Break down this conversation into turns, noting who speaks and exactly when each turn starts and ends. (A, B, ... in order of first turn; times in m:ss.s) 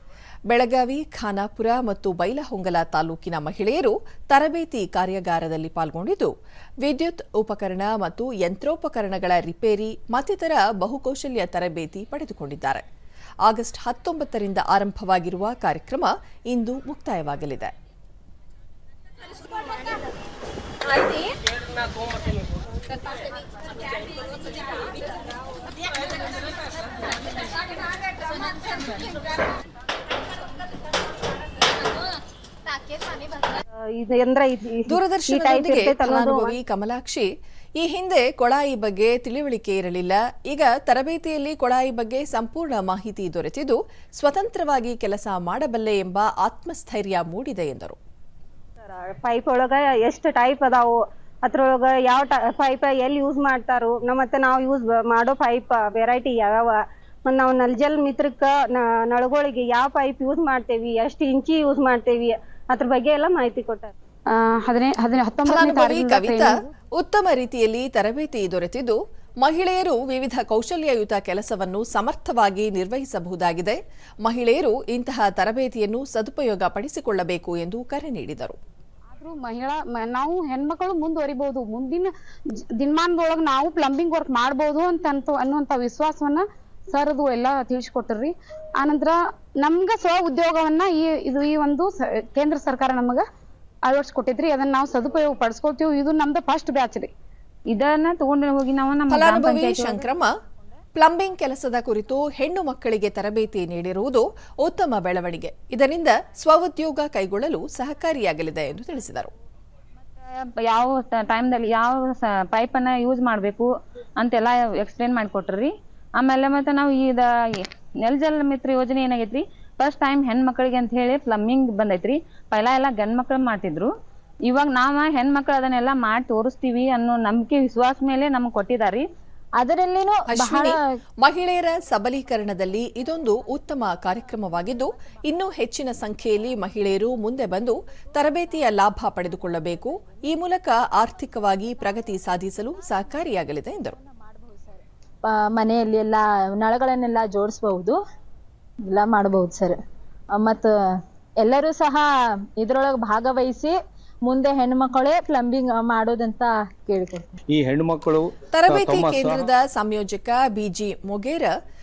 0:00.5-0:06.3 A
0:06.8-0:12.8 A
0:13.5-0:17.7 A
0:34.0-0:36.6 B
0:34.9-0:37.3 A
0:37.8-0:48.0 A
0:48.8-1:03.9 B
1:04.3-1:06.7 C
1:05.4-1:18.6 A
1:19.1-1:22.1 C
1:22.8-1:33.2 C
1:33.9-1:37.1 C
1:37.7-1:40.0 D
1:39.1-1:40.3 A
1:40.9-1:49.3 A
1:50.6-2:03.9 D
2:04.5-2:09.0 D
2:09.6-2:10.9 E
2:10.3-2:24.0 A
2:23.9-2:28.0 E
2:28.9-2:29.8 E
2:30.3-2:30.7 E
2:31.4-2:32.0 E
2:32.6-2:33.8 E
2:34.3-2:37.4 E
2:37.5-2:39.5 F
2:38.5-2:41.5 A